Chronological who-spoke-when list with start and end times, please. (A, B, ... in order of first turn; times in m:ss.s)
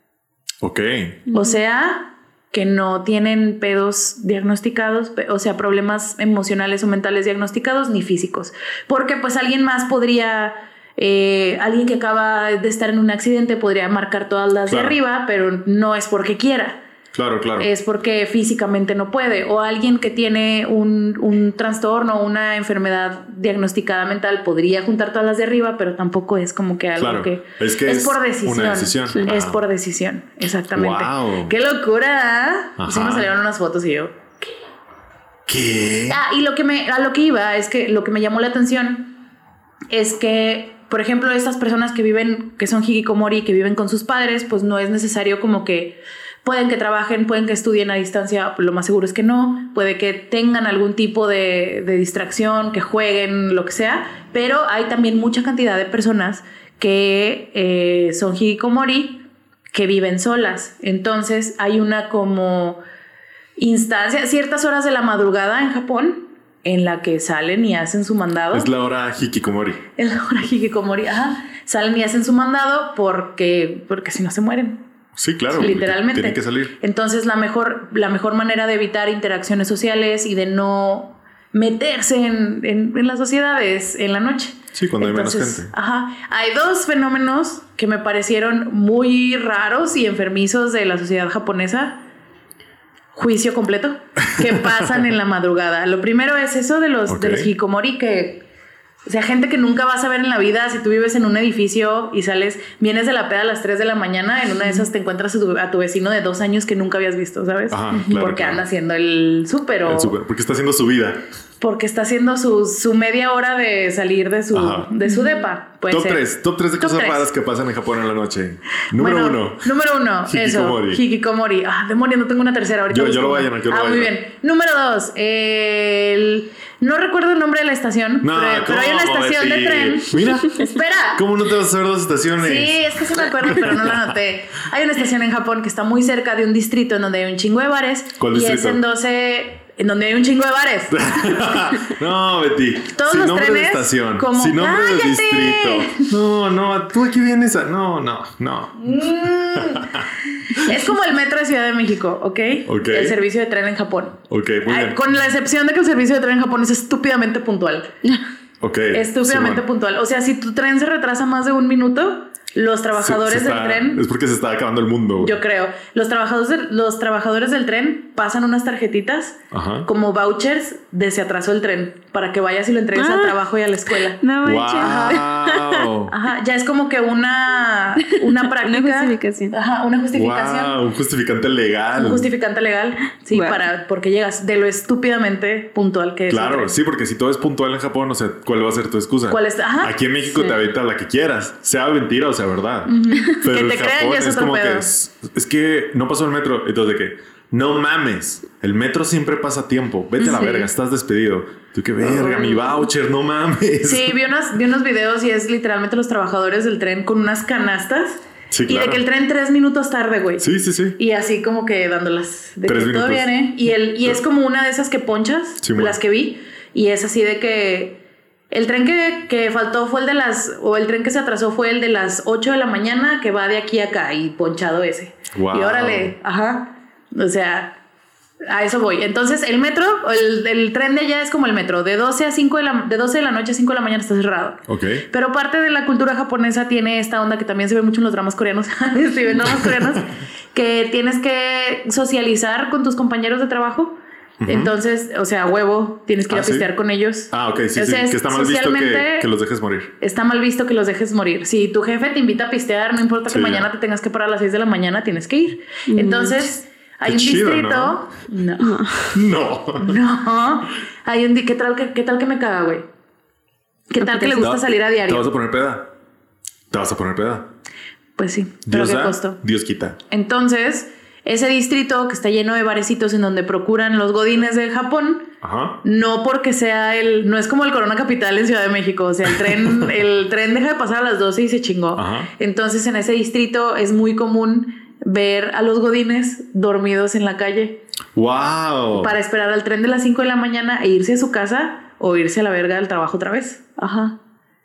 0:00.6-0:01.2 A
0:01.3-0:16.8 B
0:01.3-0:01.6 C
0:14.7-0:15.0 A
0:17.1-0:17.7 A
0:17.6-0:34.4 B
0:27.0-0:29.6 A
0:30.7-0:31.6 A
0:32.8-0:33.3 A
0:35.5-0:36.2 A
0:36.1-0:39.1 B
0:39.9-1:02.8 B
1:03.6-1:08.7 B
1:08.5-1:09.8 A
1:10.0-1:14.8 B
1:15.2-1:16.7 A
1:15.5-1:32.0 B
1:24.7-1:25.7 A
1:33.1-1:38.4 B
1:37.1-1:37.5 A
1:39.1-1:50.2 B
1:47.7-1:48.6 A
1:49.9-1:51.2 A
1:51.6-1:56.3 B
1:54.5-1:54.9 A
1:55.9-1:59.7 A
1:56.8-1:57.3 B
1:58.9-2:11.2 B
2:00.3-2:01.0 A
2:02.9-2:04.1 A
2:08.2-2:14.1 A
2:12.4-2:21.6 B
2:18.2-2:18.8 A
2:20.9-2:30.1 A
2:23.0-2:26.1 B
2:28.8-2:37.9 B
2:32.7-2:33.2 A
2:34.3-2:35.0 A
2:38.6-2:39.6 A
2:38.9-2:44.0 B
2:43.0-2:45.4 A
2:45.2-2:54.2 B
2:49.5-2:49.9 A
2:53.0-2:53.4 C
2:54.2-2:55.9 C
2:54.4-2:56.1 A
2:54.8-2:55.3 B
2:56.1-3:00.8 B
2:58.0-2:59.6 C
3:00.1-3:02.3 A
3:02.0-3:06.8 B
3:03.3-3:03.6 C
3:06.3-3:24.2 A
3:09.3-3:10.4 B
3:12.9-3:14.9 B
3:20.2-3:20.7 B
3:20.2-3:20.7 C
3:22.2-3:22.8 C
3:23.8-3:47.8 B
3:28.5-3:29.0 A
3:30.4-3:31.0 A
3:32.7-3:33.3 A
3:35.6-3:36.0 A
3:45.3-3:46.1 A
3:48.5-4:04.0 B
3:54.7-3:55.1 A
3:59.5-3:59.9 A
4:04.4-4:04.7 A
4:04.5-4:09.3 B
4:06.3-4:06.7 A
4:07.3-4:09.9 A
4:10.0-4:18.8 B
4:13.3-4:13.7 A
4:15.9-4:16.4 C
4:17.0-4:18.0 A
4:18.6-4:19.1 C
4:19.1-4:20.0 A
4:19.8-4:22.9 B
4:23.9-4:25.3 B
4:24.0-4:24.5 C
4:24.4-4:25.9 A
4:26.7-4:27.5 A
4:28.2-4:29.4 B
4:28.7-4:30.0 A
4:30.1-4:35.3 B
4:35.4-4:35.8 A
4:35.8-4:47.8 B
4:39.4-4:39.9 A
4:42.0-4:42.3 A
4:48.2-4:49.2 A
4:48.9-4:54.2 B